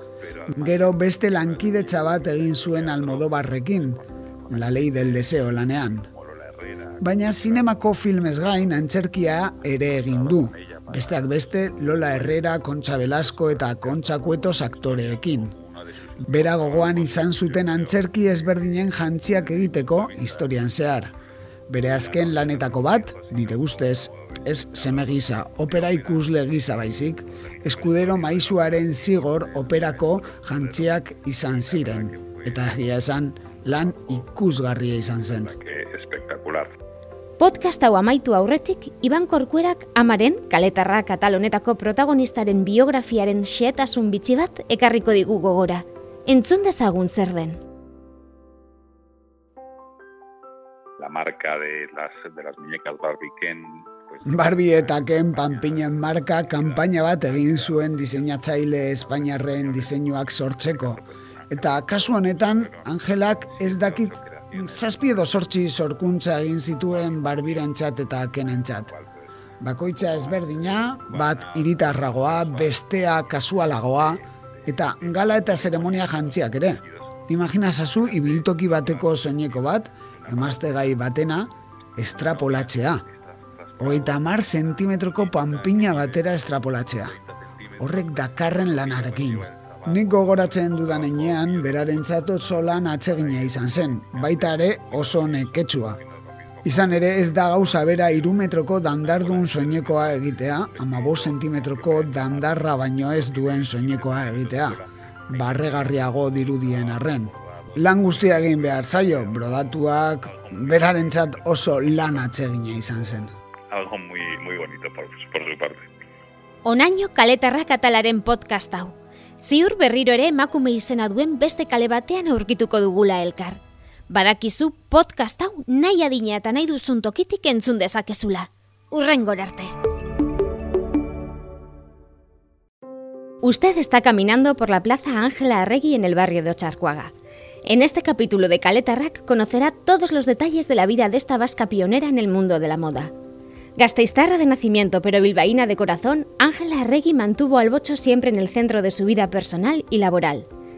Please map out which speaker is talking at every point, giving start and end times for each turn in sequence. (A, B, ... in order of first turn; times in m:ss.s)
0:00.2-0:05.4 A
0:00.5-0:04.0 B
0:04.5-0:06.1 B
0:06.0-0:07.8 A
0:07.0-0:15.5 B
0:08.4-0:08.9 A
0:09.6-0:20.7 A
0:16.2-0:21.1 B
0:21.7-0:35.5 B
0:21.8-0:33.0 A
0:33.6-0:34.2 A
0:35.2-0:36.7 A
0:37.4-0:47.6 C
0:51.0-1:05.3 A
0:54.2-1:08.9 B
1:06.8-1:09.2 A
1:09.6-1:23.0 B
1:10.0-1:17.1 A
1:17.8-1:21.0 A
1:22.1-1:32.0 A
1:23.8-1:27.2 B
1:27.8-1:36.0 B
1:33.0-1:52.4 A
1:36.6-1:53.3 B
1:53.7-1:55.9 A
1:56.6-2:03.6 C
2:04.1-2:09.7 C
2:13.4-2:17.1 C
2:17.6-2:23.1 C
2:23.8-2:30.4 C